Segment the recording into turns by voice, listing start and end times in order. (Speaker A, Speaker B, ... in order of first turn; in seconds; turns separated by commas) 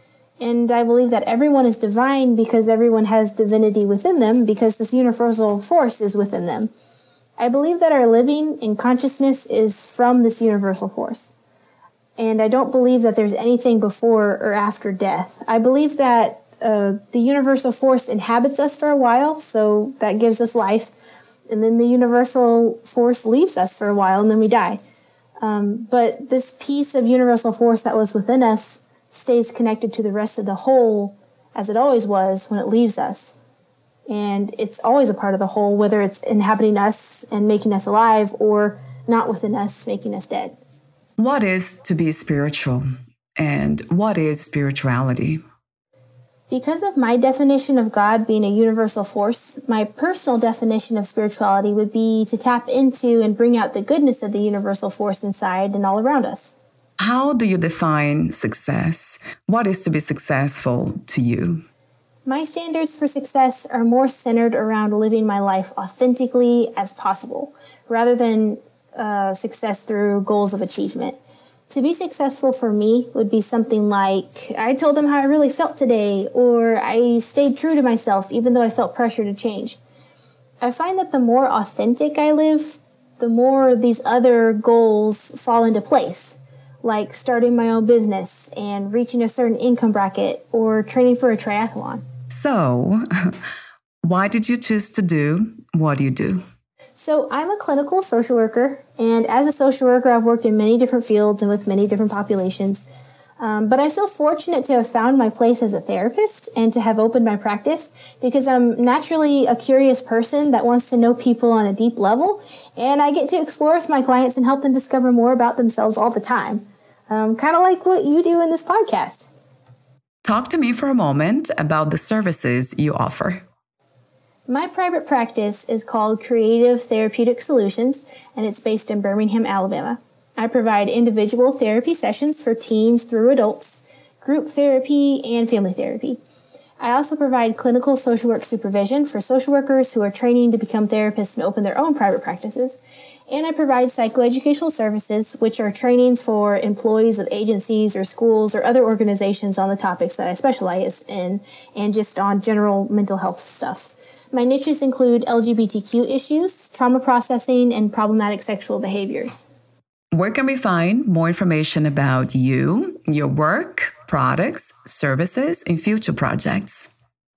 Speaker A: 0.4-6.7, Speaker A: 7.4-11.3, Speaker A: 12.2-20.9, Speaker A: 21.5-24.8, Speaker A: 25.4-33.3, Speaker A: 34.1-40.6, Speaker B: 41.2-42.8, Speaker B: 43.4-45.4, Speaker A: 46.5-56.5, Speaker B: 57.0-61.6, Speaker A: 62.2-79.8, Speaker A: 80.6-92.0, Speaker B: 92.3-93.0, Speaker B: 94.0-96.4, Speaker A: 97.0-102.8, Speaker A: 103.4-119.3, Speaker B: 120.2-123.4, Speaker A: 124.5-136.2, Speaker A: 136.8-159.4, Speaker B: 160.1-166.9